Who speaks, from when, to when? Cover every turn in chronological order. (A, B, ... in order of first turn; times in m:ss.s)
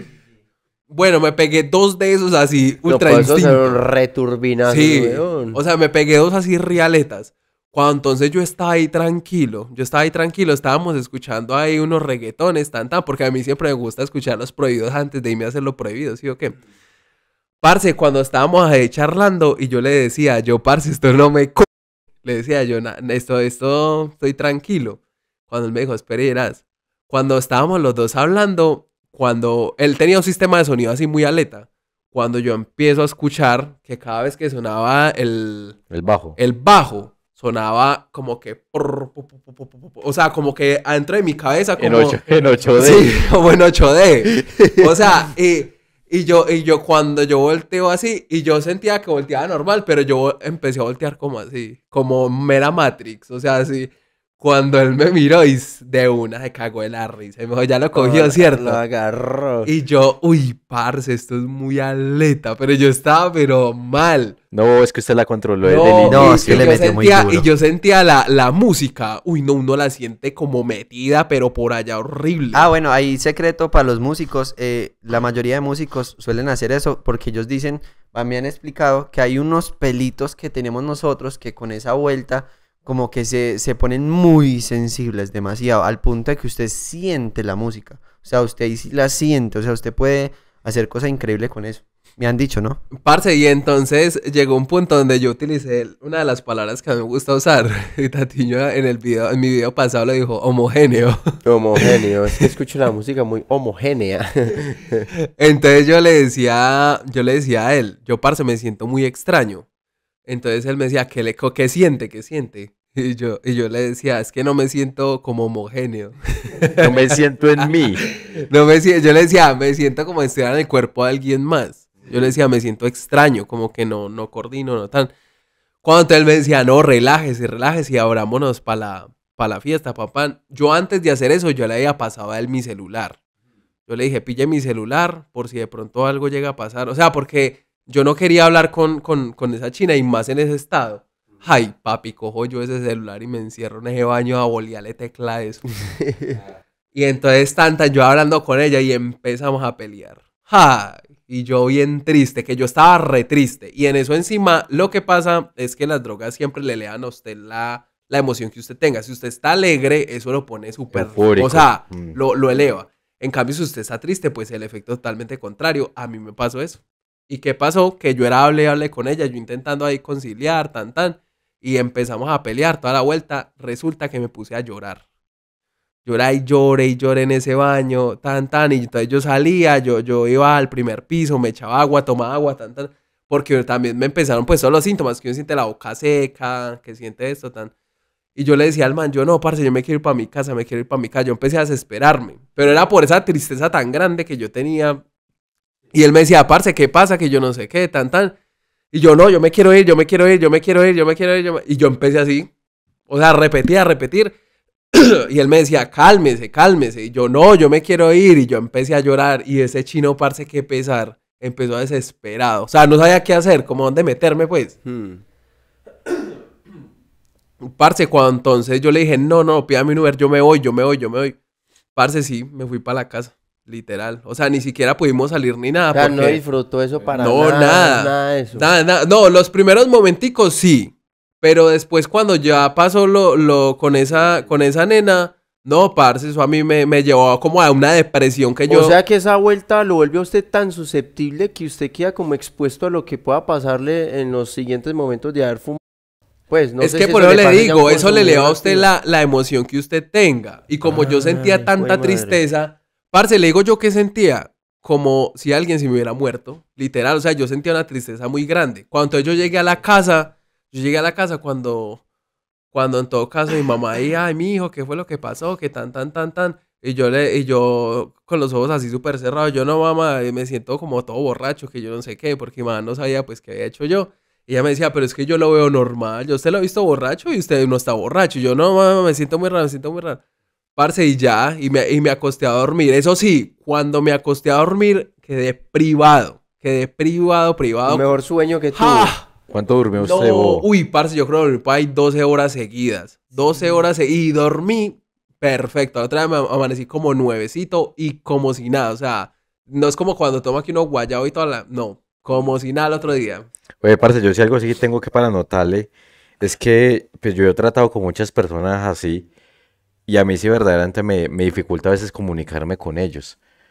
0:00.9-0:03.8 A
0:02.9-0:05.6 B
0:04.7-0:16.6 A
0:17.6-0:21.7 A
0:22.2-0:35.8 A
0:35.9-0:36.4 C
0:36.4-0:58.8 A
0:41.8-0:43.2 C
0:57.9-0:59.7 B
0:59.6-1:04.4 A
1:04.5-1:06.8 C
1:05.6-1:12.7 A
1:06.0-1:07.5 D
1:12.5-1:32.8 D
1:33.0-1:41.8 A
1:41.4-1:45.1 B
1:45.4-1:49.7 A
1:50.3-2:05.1 A
1:56.8-1:58.0 C
2:05.8-2:13.2 A
2:13.9-2:25.7 A
2:26.0-2:26.4 B
2:26.9-2:55.0 A
2:40.9-2:42.2 C
2:56.0-3:07.7 A
3:08.4-3:15.0 A
3:15.9-3:18.4 A
3:18.9-3:22.5 A
3:23.1-3:24.3 A
3:24.9-3:34.8 A
3:34.8-3:35.2 B
3:37.6-3:41.4 A
3:42.0-3:46.4 A
3:45.9-3:48.7 B
3:47.2-3:59.0 A
3:58.7-4:05.8 B
4:06.5-4:08.9 B
4:06.8-4:22.0 A
4:10.9-4:12.4 B
4:22.7-4:40.2 A
4:40.8-4:48.0 A
4:47.9-4:49.1 B
4:48.8-4:49.2 A
4:49.5-4:50.6 C
4:50.0-5:03.5 A
5:03.8-5:05.9 C
5:06.4-5:09.3 C
5:10.1-5:13.4 C